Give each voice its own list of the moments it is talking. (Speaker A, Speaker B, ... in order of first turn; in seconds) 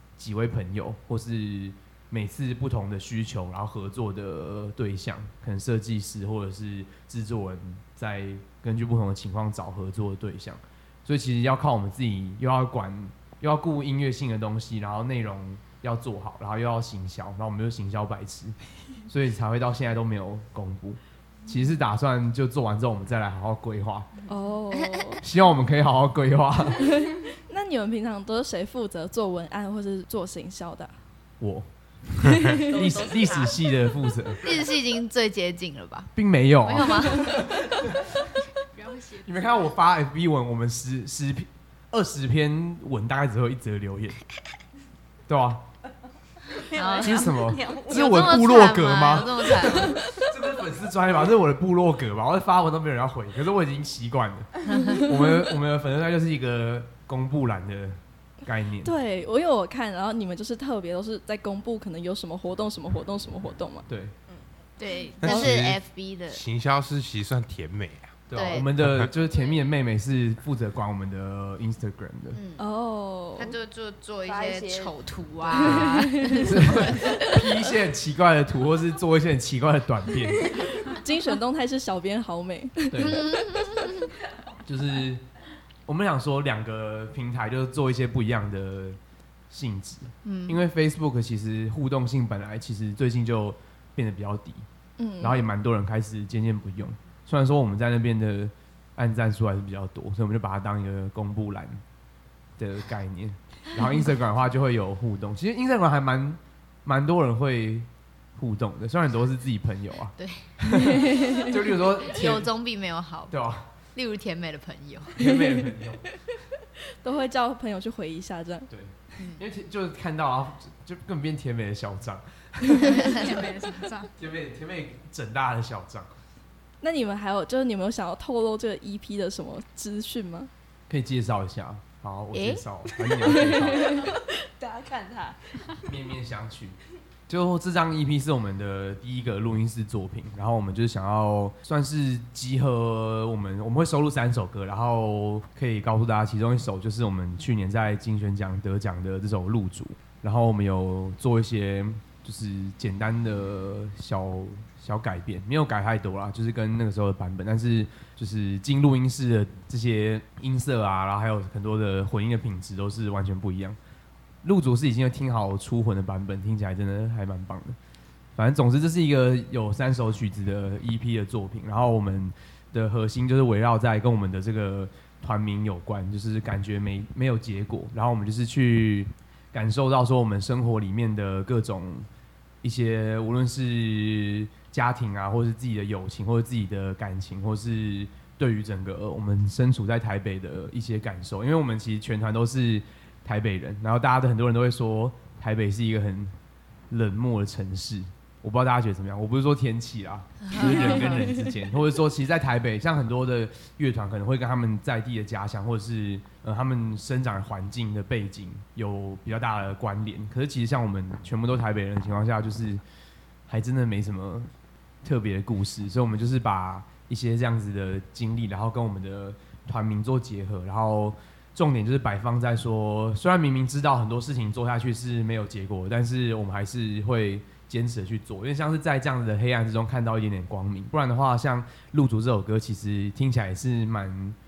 Speaker A: 0.2-18.6, 19.1-24.1, 25.2-26.9, 31.4-31.7, 32.3-34.5, 36.1-38.0, 39.2-44.2, 45.3-45.6, 47.0-58.9, 63.9-64.1, 68.3-72.4, 75.6-80.7, 82.9-83.3, 84.7-85.2, 85.9-89.0, 89.5-94.7, 95.2-101.8, 102.6-112.5, 113.3-113.7, 115.2-116.0, 118.7-123.5, 124.2-126.1, 130.9-133.9, 135.9-136.8, 137.3-163.8, 164.4-167.8, 168.4-182.1, 182.6-196.3, 196.9-212.8, 213.5-214.5, 215.0-234.4
Speaker B: 24.3-25.2, 26.8-30.9, 32.2-32.7, 58.8-63.9, 72.6-73.5, 75.6-76.7, 80.5-83.3, 95.0-95.4, 110.8-111.5, 117.0-118.7, 126.8-130.5, 200.6-201.1
Speaker C: 32.6-33.6, 34.4-37.5, 46.7-50.0, 54.7-55.0, 64.8-66.4, 68.3-68.7, 72.3-72.7, 73.4-77.6, 83.0-84.1, 90.2-90.6, 110.2-110.5, 112.0-113.3, 114.0-115.4, 122.9-123.2, 132.3-132.6, 200.4-201.3
Speaker D: 32.9-33.3, 46.7-48.1, 74.2-74.9, 133.9-135.9
Speaker E: 38.8-39.5, 122.8-124.1
Speaker F: 65.2-68.2, 68.8-69.1